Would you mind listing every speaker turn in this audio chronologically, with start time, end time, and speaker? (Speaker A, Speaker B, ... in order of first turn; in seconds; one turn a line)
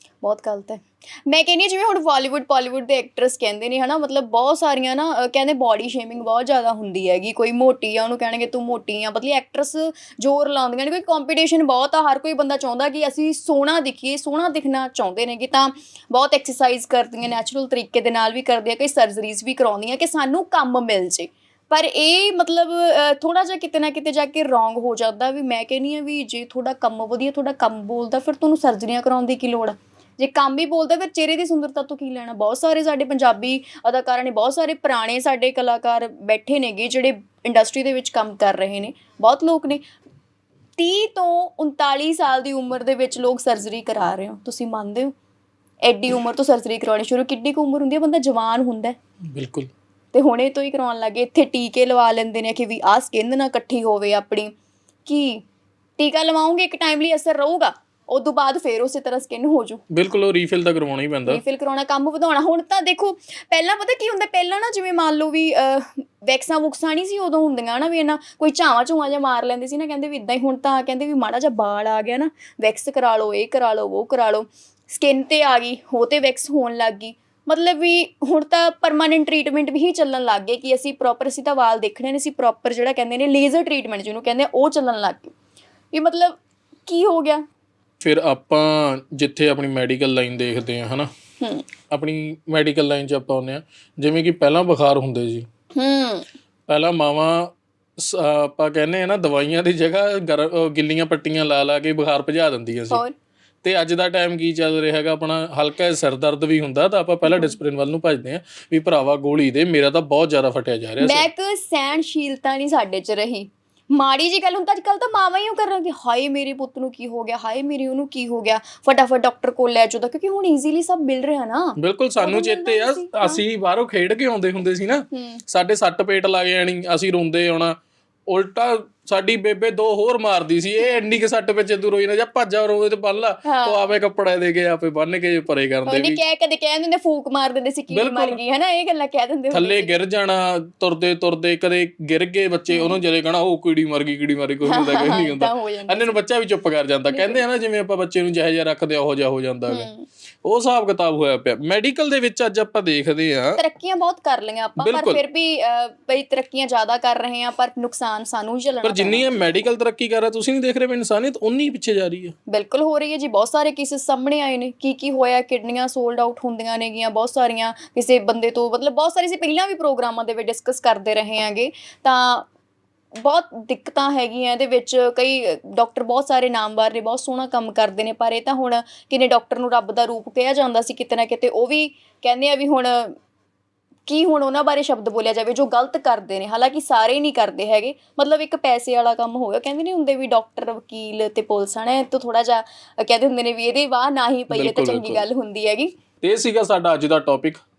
Speaker A: 0.2-39.8
Speaker A: 40.8-45.1
Speaker A: 45.8-49.0
Speaker B: 49.3-49.7
Speaker A: 50.1-54.5
Speaker A: 55.1-55.4
Speaker A: 56.0-59.8
Speaker B: 59.9-61.4
Speaker A: 61.3-85.3
Speaker A: 85.9-87.5
Speaker B: 88.0-91.1
Speaker A: 91.4-91.7
Speaker B: 91.9-95.5
Speaker A: 95.8-96.3
Speaker B: 96.7-103.0
Speaker B: 103.6-111.3
Speaker A: 107.3-107.6
Speaker A: 111.0-123.4
Speaker B: 121.8-136.2
Speaker A: 125.1-125.4
Speaker A: 133.4-133.9
Speaker A: 135.9-139.9
Speaker B: 137.9-138.4
Speaker B: 139.5-149.9
Speaker A: 142.7-143.0
Speaker A: 144.7-146.2
Speaker A: 147.1-147.4
Speaker A: 149.7-150.1
Speaker B: 150.4-153.6
Speaker A: 153.6-159.7
Speaker B: 154.8-155.2
Speaker B: 158.8-162.3
Speaker A: 162.5-172.5
Speaker A: 173.2-183.2
Speaker A: 184.1-195.9
Speaker B: 194.5-195.2
Speaker B: 196.2-197.6